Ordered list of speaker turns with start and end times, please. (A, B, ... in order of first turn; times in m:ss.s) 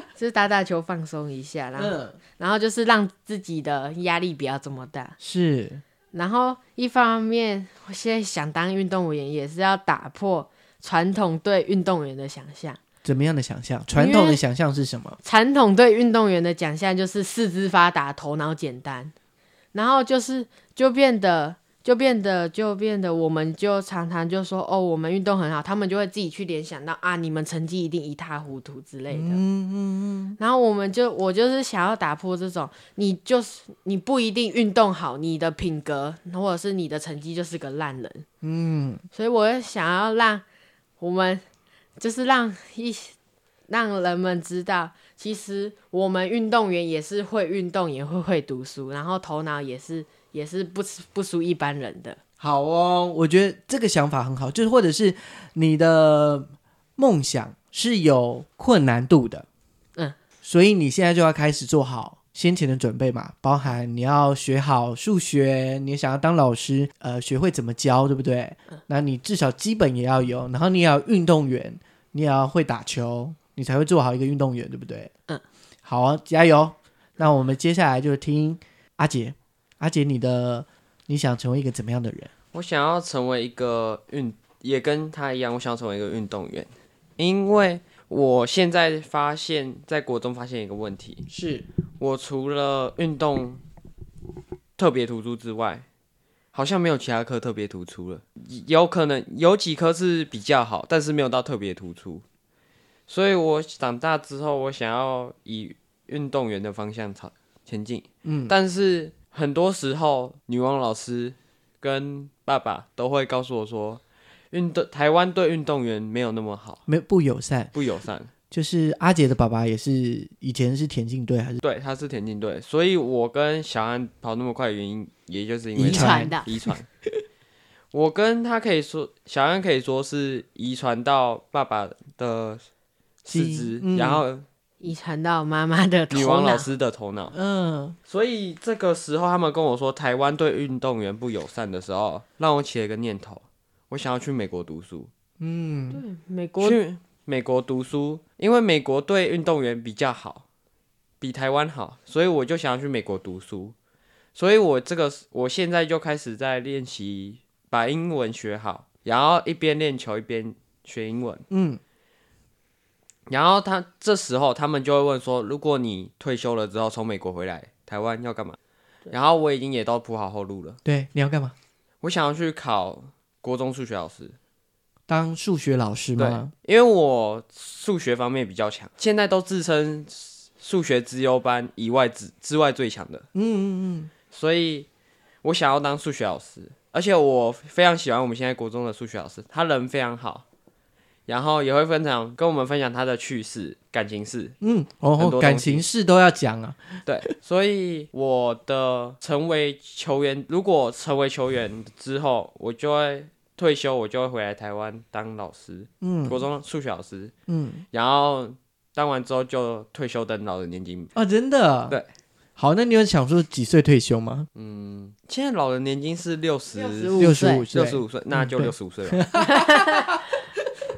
0:00.2-0:05.2 A
0:01.8-0:02.2 B
0:05.2-0:05.8 B
0:06.1-0:12.8 A
0:13.0-0:15.2 B
0:13.9-0:14.4 A
0:15.2-0:19.1 A
0:19.7-0:29.4 A
0:29.1-0:30.4 B
0:30.4-0:38.2 A
0:38.4-0:39.0 B
0:39.1-0:40.4 A
0:41.0-0:41.4 A
0:42.0-0:43.2 A
0:43.7-0:52.2 A
0:52.4-0:59.4 B
1:00.4-1:15.1 B
1:15.8-1:22.3 B
1:22.5-1:31.3 C
1:31.3-1:31.6 B
1:32.0-1:33.6 C
1:34.8-1:35.8 C
1:36.5-1:42.2 C
1:43.1-1:56.8 C
1:48.2-1:48.5 B
1:56.9-1:57.7 B
1:57.7-1:58.3 C
1:58.5-2:01.6 B
2:01.6-2:06.9 C
2:05.8-2:06.4 B
2:05.9-2:06.4 A
2:07.9-2:12.6 C
2:13.2-2:14.4 C
2:13.3-2:14.2 B
2:14.8-2:16.7 A
2:16.1-2:17.4 C
2:17.3-2:18.0 B
2:18.1-2:25.1 C
2:25.4-2:26.0 B
2:25.9-2:26.8 A
2:26.6-2:30.4 C
2:31.2-2:33.7 C
2:34.4-2:41.4 C
2:41.5-2:41.8 B
2:43.3-2:48.6 C
2:49.1-2:50.8 C
2:50.8-2:51.5 B
2:52.0-2:54.4 C
2:55.1-2:56.5 B
2:56.2-3:03.2 C
3:03.3-3:04.1 B
3:04.3-3:04.9 C
3:05.4-3:10.4 C
3:11.3-3:14.6 C
3:14.6-3:17.0 B
3:15.2-3:15.8 C
3:17.1-3:27.3 C
3:26.0-3:26.4 B
3:27.5-3:27.8 B
3:27.9-3:31.1 C
3:31.1-3:32.0 B
3:32.6-3:34.5 B
3:34.6-3:39.3 C
3:36.7-3:37.6 A
3:37.2-3:40.2 B
3:39.4-3:40.2 A